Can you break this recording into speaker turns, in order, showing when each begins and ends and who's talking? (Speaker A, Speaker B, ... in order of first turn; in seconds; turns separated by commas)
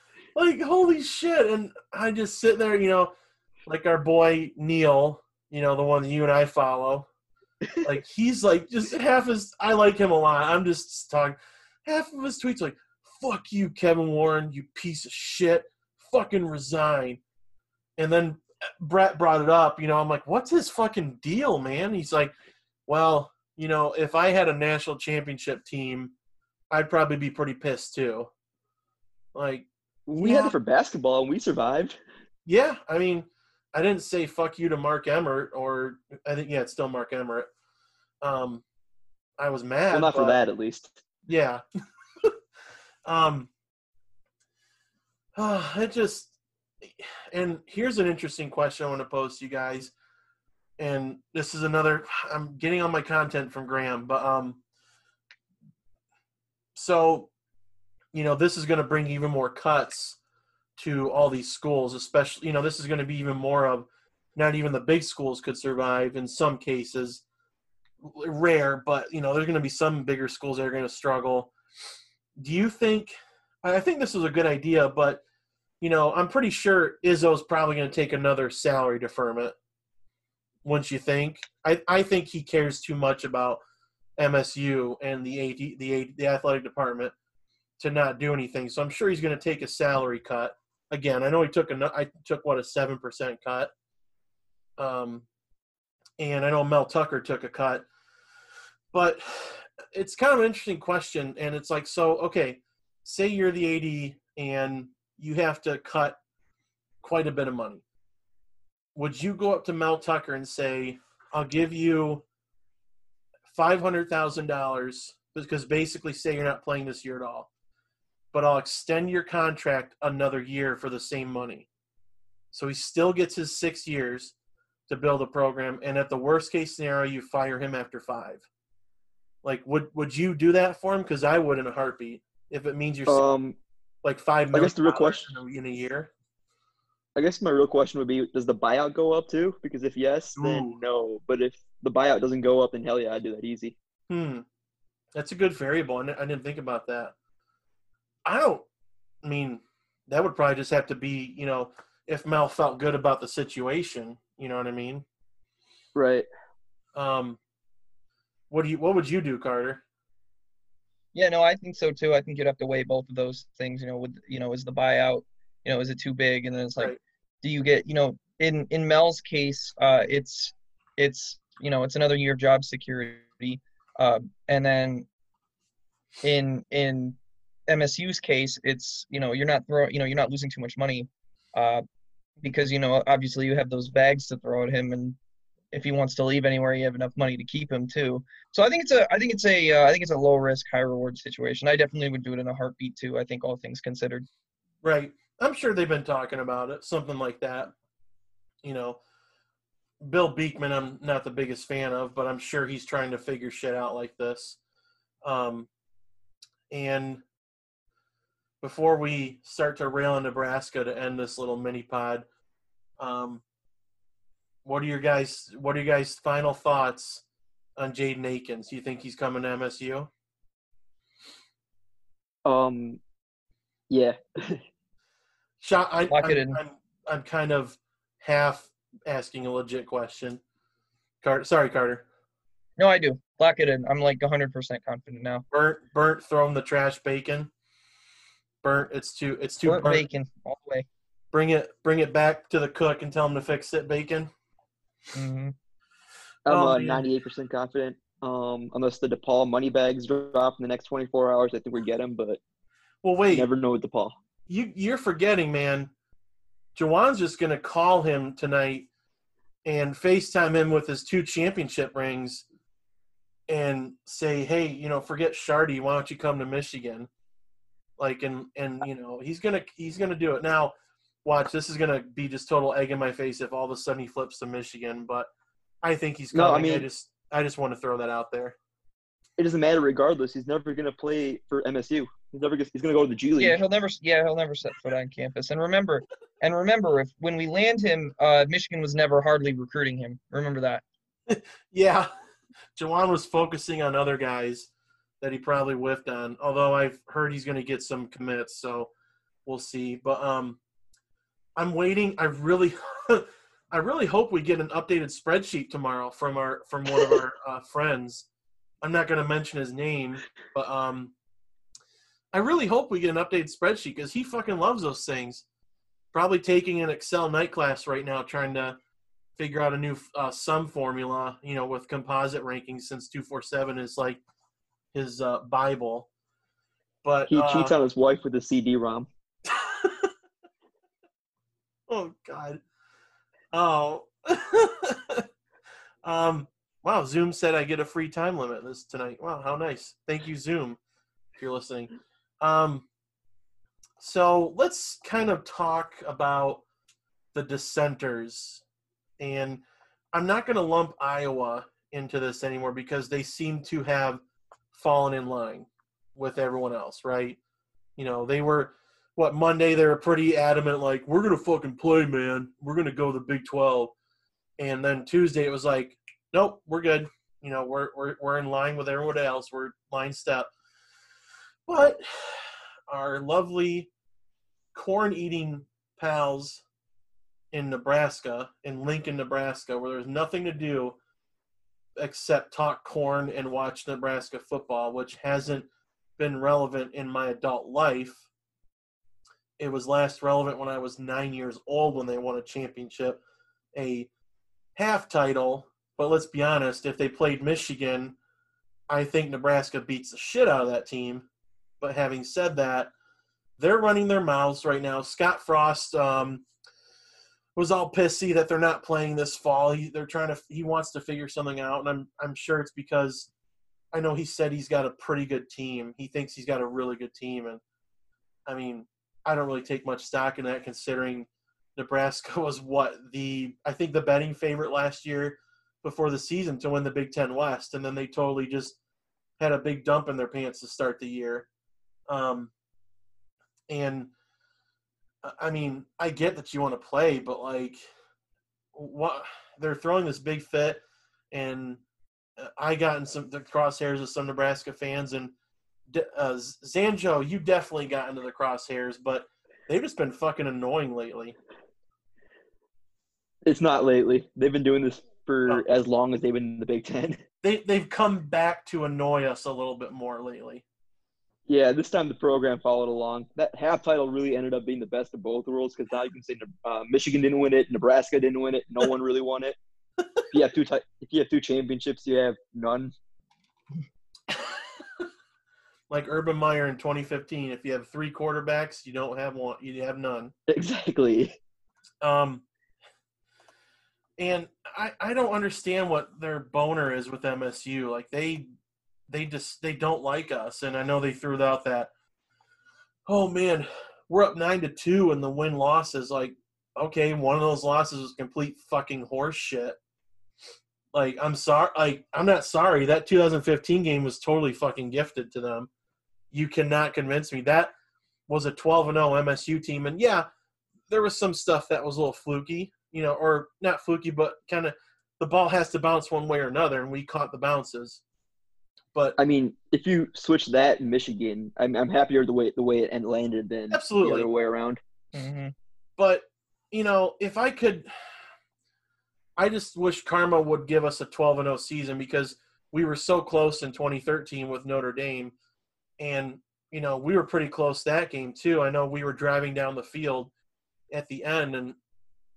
Speaker A: 0.3-3.1, Speaker A: 3.7-7.1, Speaker A: 7.8-17.2, Speaker A: 18.0-22.4, Speaker A: 22.9-26.1, Speaker A: 26.7-28.3, Speaker A: 29.4-29.7, Speaker B: 30.1-31.9, Speaker A: 30.2-30.6, Speaker A: 32.5-37.5, Speaker A: 38.2-38.6, Speaker A: 39.4-40.4, Speaker B: 39.9-41.0, Speaker A: 41.3-41.6, Speaker A: 43.1-43.5, Speaker A: 45.4-46.3, Speaker A: 46.8-49.9, Speaker A: 50.8-54.6, Speaker A: 56.7-57.3, Speaker A: 58.1-60.2, Speaker A: 60.8-67.2, Speaker A: 68.0-71.5, Speaker A: 72.4-75.2, Speaker A: 75.8-79.5, Speaker A: 80.6-83.6, Speaker A: 84.2-87.1, Speaker A: 87.8-93.7, Speaker A: 94.8-95.2, Speaker A: 96.2-97.9, Speaker A: 98.9-106.2, Speaker A: 107.0-107.8, Speaker A: 108.9-112.2, Speaker A: 113.5-117.5, Speaker A: 118.3-121.7, Speaker A: 122.5-124.3, Speaker A: 124.9-128.4, Speaker A: 129.4-133.2, Speaker B: 133.1-133.6, Speaker A: 134.0-136.1, Speaker B: 134.5-135.3, Speaker B: 137.2-143.7, Speaker A: 140.4-140.8, Speaker A: 144.1-144.4, Speaker A: 145.2-147.1, Speaker A: 148.2-148.7, Speaker A: 149.2-155.1, Speaker B: 155.9-156.3, Speaker A: 156.9-157.4, Speaker A: 158.5-159.8, Speaker C: 161.1-175.1, Speaker C: 176.2-177.2, Speaker C: 177.7-181.8, Speaker C: 182.4-185.2, Speaker C: 185.7-194.2, Speaker A: 194.8-197.7, Speaker A: 198.6-199.0, Speaker A: 200.0-204.6, Speaker A: 205.2-205.7, Speaker A: 206.7-207.2, Speaker A: 208.6-212.2, Speaker A: 213.0-213.4, Speaker A: 214.6-217.2, Speaker A: 217.8-220.1, Speaker B: 222.4-223.0, Speaker B: 223.9-224.6, Speaker A: 225.6-230.4, Speaker C: 226.1-226.6, Speaker A: 231.2-232.1, Speaker C: 232.8-235.4, Speaker A: 235.5-237.5, Speaker A: 238.6-240.0, Speaker C: 239.6-240.9, Speaker A: 241.3-244.3, Speaker C: 245.1-245.6, Speaker B: 246.4-252.4, Speaker A: 246.5-247.1, Speaker A: 253.0-253.5, Speaker B: 253.3-254.2, Speaker A: 254.5-255.9, Speaker A: 256.7-258.9, Speaker A: 259.6-262.4, Speaker A: 263.5-267.1, Speaker A: 268.0-275.3, Speaker A: 275.8-278.6, Speaker B: 276.3-276.9, Speaker B: 279.4-283.6, Speaker C: 283.4-290.8, Speaker A: 291.3-292.1, Speaker A: 292.8-294.7, Speaker A: 295.2-298.9, Speaker A: 299.4-300.6, Speaker A: 301.6-308.3, Speaker A: 308.8-311.1, Speaker A: 312.3-315.4, Speaker A: 316.1-318.8, Speaker A: 319.4-324.2, Speaker A: 324.9-326.1, Speaker A: 327.0-327.7, Speaker B: 327.3-329.1, Speaker A: 329.5-330.1, Speaker A: 331.9-332.6, Speaker A: 333.5-335.2, Speaker A: 336.0-340.8, Speaker A: 341.4-342.9, Speaker A: 344.0-346.6, Speaker A: 347.3-348.6, Speaker A: 349.2-354.2, Speaker A: 354.7-357.4, Speaker A: 358.0-363.9, Speaker A: 364.6-370.5, Speaker A: 371.7-373.9, Speaker A: 374.7-376.6, Speaker A: 377.5-381.0, Speaker A: 382.0-385.7, Speaker A: 386.2-388.2, Speaker A: 389.6-393.2, Speaker A: 393.7-394.1, Speaker A: 394.8-398.1, Speaker A: 398.9-401.2, Speaker A: 401.8-402.9, Speaker A: 403.6-406.4, Speaker A: 407.6-413.3, Speaker A: 413.9-417.6, Speaker A: 418.5-428.8, Speaker A: 429.4-431.5, Speaker A: 432.1-432.5, Speaker A: 433.7-434.1, Speaker A: 435.2-437.8, Speaker A: 438.7-441.8, Speaker A: 442.4-445.3, Speaker A: 445.9-451.4, Speaker B: 453.4-457.2, Speaker A: 457.4-460.6, Speaker B: 461.5-469.6, Speaker B: 470.3-472.9, Speaker A: 475.9-480.3, Speaker B: 480.5-481.4, Speaker A: 482.0-482.4, Speaker A: 484.2-488.4, Speaker A: 489.1-491.9, Speaker A: 493.1-499.8, Speaker A: 500.9-505.7, Speaker A: 506.3-507.7, Speaker A: 508.3-510.3, Speaker A: 510.9-518.0, Speaker B: 519.2-524.8, Speaker A: 523.7-524.3, Speaker C: 525.1-525.5, Speaker A: 526.0-527.9, Speaker A: 529.4-535.3, Speaker A: 536.0-540.3, Speaker A: 540.9-541.8